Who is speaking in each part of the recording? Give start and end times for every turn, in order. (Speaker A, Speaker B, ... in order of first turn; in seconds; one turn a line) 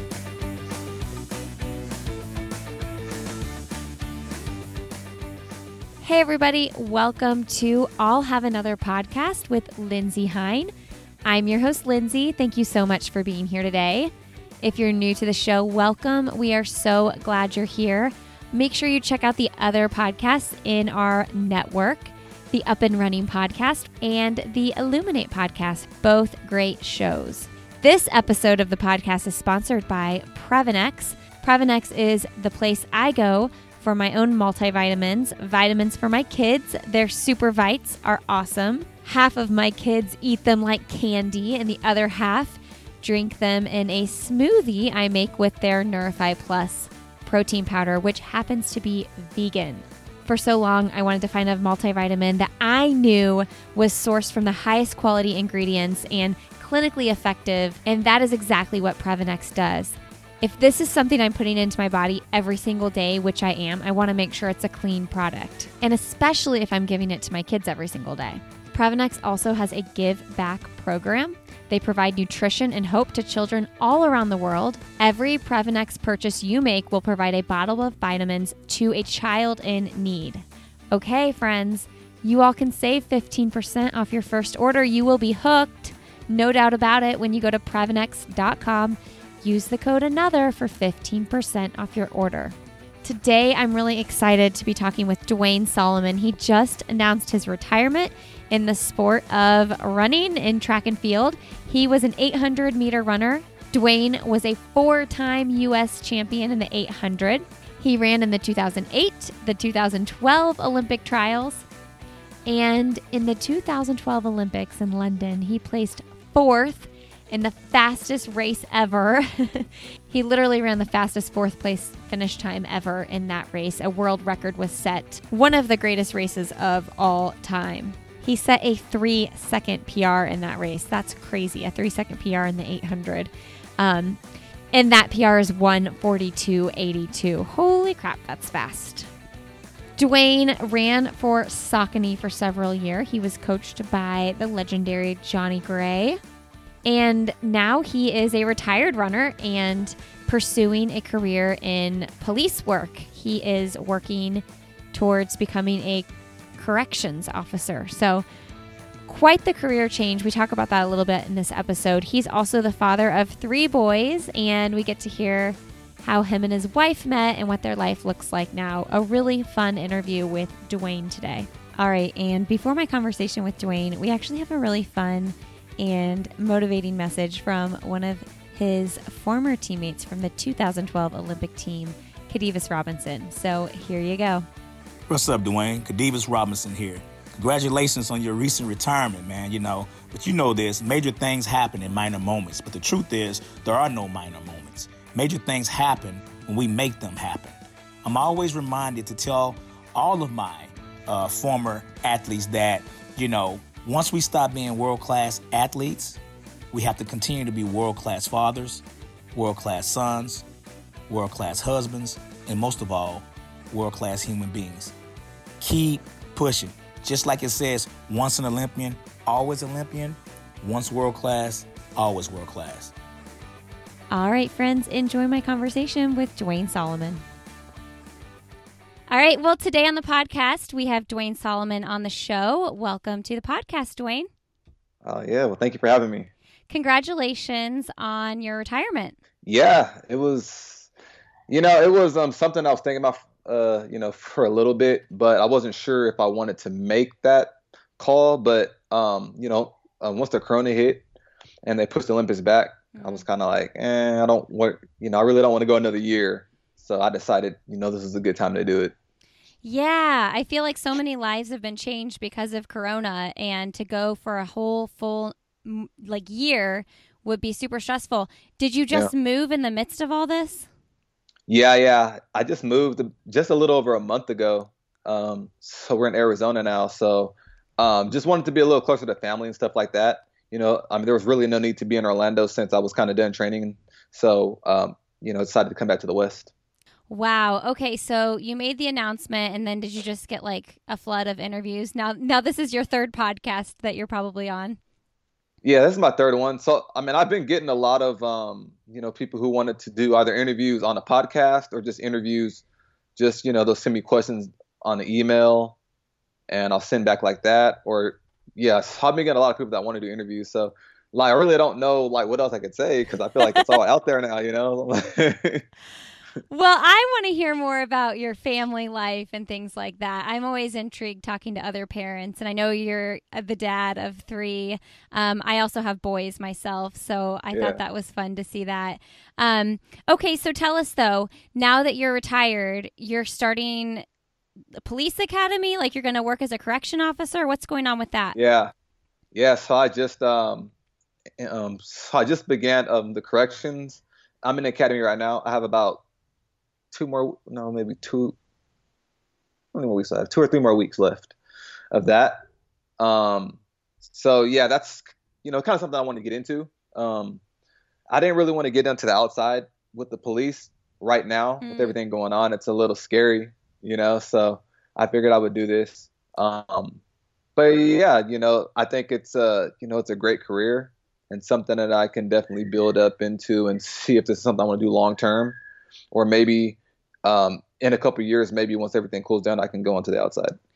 Speaker A: 6.0-10.7
Speaker A: 11.3-111.7
Speaker A: 112.5-134.2
Speaker A: 134.7-139.1
Speaker A: 140.0-146.2
Speaker A: 146.9-158.2
Speaker A: 159.1-184.5
Speaker B: 185.1-206.2
Speaker B: 206.7-210.4
Speaker B: 211.1-214.9
Speaker B: 215.6-222.9
Speaker A: 224.1-227.2
Speaker A: 229.1-234.3
Speaker C: 235.0-236.3
Speaker A: 236.7-239.2
Speaker C: 239.4-240.9
Speaker C: 241.5-251.0
Speaker C: 251.7-258.9
Speaker A: 252.9-253.2
Speaker A: 259.6-270.7
Speaker C: 271.5-286.5
Speaker A: 287.1-294.8
Speaker C: 295.6-302.6
Speaker C: 303.2-305.8
Speaker C: 306.5-315.6
Speaker A: 313.4-313.7
Speaker A: 316.5-334.1
Speaker C: 327.5-327.8
Speaker A: 334.8-338.4
Speaker C: 338.3-338.7
Speaker C: 339.3-340.7
Speaker C: 341.4-346.0
Speaker C: 346.9-348.4
Speaker C: 349.7-351.3
Speaker C: 351.9-352.4
Speaker C: 353.0-357.4
Speaker C: 358.1-367.0
Speaker A: 361.6-362.0
Speaker C: 367.6-375.6
Speaker C: 376.1-380.6